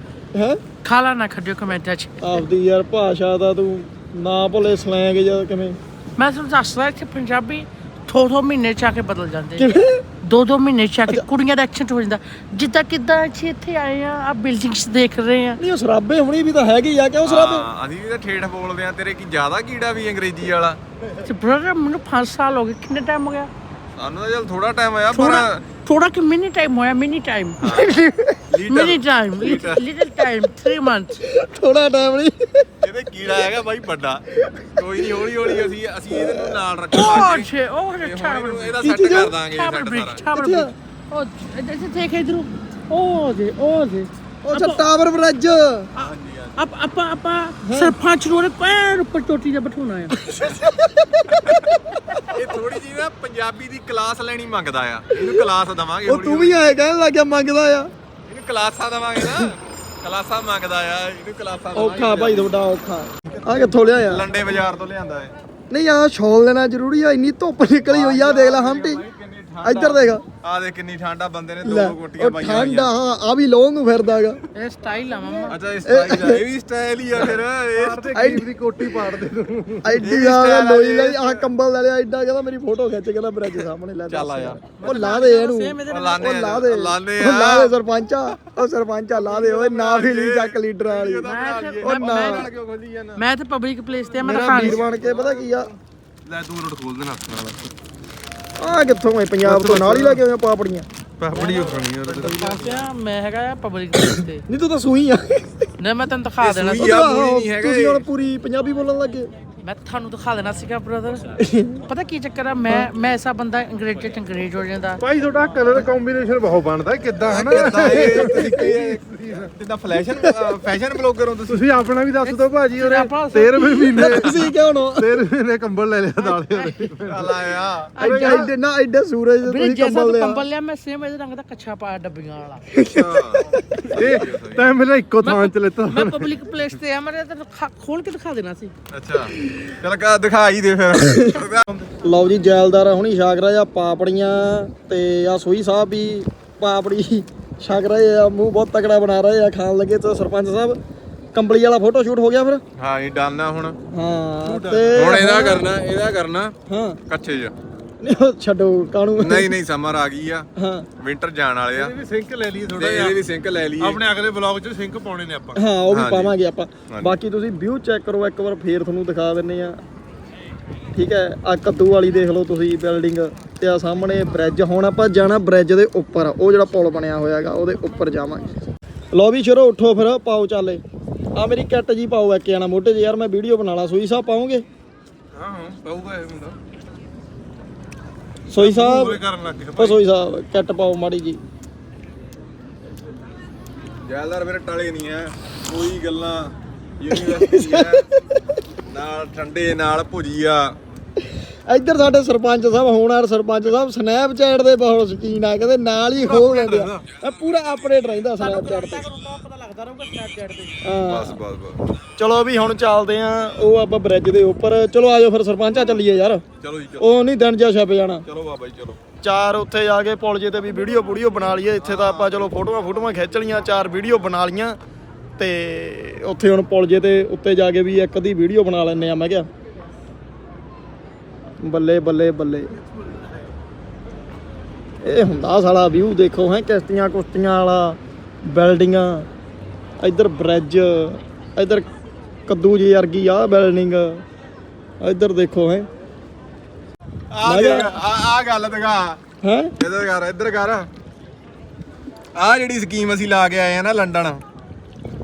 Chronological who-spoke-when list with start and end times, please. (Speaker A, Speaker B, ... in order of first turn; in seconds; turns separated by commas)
Speaker A: 0.3-0.6, Speaker B: 0.8-2.4, Speaker A: 2.2-5.8, Speaker B: 6.2-9.7, Speaker A: 9.6-10.0, Speaker B: 10.2-15.6, Speaker A: 15.6-17.6, Speaker C: 17.2-20.8, Speaker B: 21.2-23.5, Speaker C: 24.0-25.6, Speaker B: 25.1-31.2, Speaker C: 27.6-27.9, Speaker C: 28.5-30.1, Speaker A: 31.2-32.7, Speaker C: 32.8-34.2, Speaker A: 34.4-36.6, Speaker C: 34.8-40.3, Speaker B: 36.9-38.9, Speaker A: 38.8-39.3, Speaker B: 39.5-44.8, Speaker A: 40.3-40.7, Speaker A: 44.4-45.9, Speaker C: 46.0-46.6, Speaker B: 46.0-50.1, Speaker A: 47.6-47.9, Speaker A: 50.2-52.2, Speaker C: 51.3-51.6, Speaker C: 52.2-56.7, Speaker A: 55.1-55.5, Speaker A: 56.0-57.9, Speaker C: 58.2-62.5, Speaker A: 59.2-59.5, Speaker A: 61.7-64.2, Speaker C: 63.4-65.3, Speaker A: 65.7-69.0, Speaker C: 67.9-72.9, Speaker A: 69.6-70.2, Speaker A: 71.6-74.4, Speaker B: 74.5-75.6, Speaker C: 75.5-78.2, Speaker A: 75.8-76.4, Speaker D: 77.8-79.9, Speaker A: 78.1-78.5, Speaker A: 79.8-91.3, Speaker C: 80.0-81.5, Speaker C: 84.1-84.6, Speaker B: 84.8-86.2, Speaker C: 85.9-87.7, Speaker C: 89.1-93.2, Speaker B: 91.2-92.5, Speaker A: 91.8-92.5, Speaker B: 93.2-94.8, Speaker A: 94.2-95.7, Speaker C: 94.4-95.1, Speaker C: 96.3-97.6, Speaker A: 98.6-100.8, Speaker D: 99.4-100.2, Speaker D: 101.2-102.4, Speaker C: 101.3-102.3, Speaker B: 102.2-104.4, Speaker A: 104.5-105.7, Speaker B: 105.8-106.9, Speaker C: 106.4-108.1, Speaker A: 106.8-109.3, Speaker B: 109.6-115.0, Speaker A: 111.4-111.8, Speaker D: 115.0-119.5, Speaker C: 117.2-121.7, Speaker A: 117.8-118.7, Speaker D: 121.5-127.4, Speaker B: 122.2-124.4, Speaker A: 123.9-125.2, Speaker B: 126.2-127.0, Speaker C: 127.1-127.9, Speaker B: 127.9-128.5, Speaker A: 128.0-130.4, Speaker D: 128.0-128.5, Speaker B: 129.4-132.6, Speaker A: 132.7-134.2, Speaker C: 132.9-134.7, Speaker D: 133.9-136.3, Speaker B: 135.2-138.7, Speaker C: 138.9-141.8, Speaker A: 142.0-150.8, Speaker A: 151.3-152.6, Speaker C: 152.8-153.8, Speaker A: 153.9-155.7, Speaker D: 154.4-155.0, Speaker C: 154.9-156.5, Speaker A: 156.7-157.0, Speaker C: 157.1-157.5, Speaker A: 158.0-159.5, Speaker C: 159.2-160.5, Speaker A: 160.6-160.9, Speaker C: 161.0-161.9, Speaker D: 161.8-163.2, Speaker C: 162.8-164.0, Speaker D: 163.8-165.6, Speaker A: 165.5-169.8, Speaker C: 165.9-166.3, Speaker C: 166.9-167.1, Speaker A: 170.9-178.5, Speaker A: 179.1-180.8, Speaker A: 181.3-184.6, Speaker D: 185.3-186.6, Speaker A: 188.5-189.2, Speaker D: 188.5-190.0, Speaker A: 189.8-191.4, Speaker C: 194.0-198.0, Speaker A: 197.1-198.4, Speaker C: 198.8-200.8, Speaker A: 201.7-209.0, Speaker D: 206.2-206.8, Speaker B: 208.4-210.8, Speaker A: 210.8-211.4, Speaker C: 211.1-211.9, Speaker A: 212.2-216.4, Speaker C: 216.6-217.2, Speaker A: 217.0-218.2, Speaker C: 218.2-219.0, Speaker A: 219.2-224.8, Speaker C: 221.8-222.5, Speaker A: 225.4-229.5, Speaker A: 231.6-232.7, Speaker A: 235.0-239.3, Speaker A: 240.0-241.8, Speaker A: 242.5-244.2, Speaker A: 245.0-245.9, Speaker C: 247.3-249.2, Speaker A: 247.4-247.9, Speaker A: 249.4-249.7, Speaker C: 249.8-250.9, Speaker C: 252.3-254.4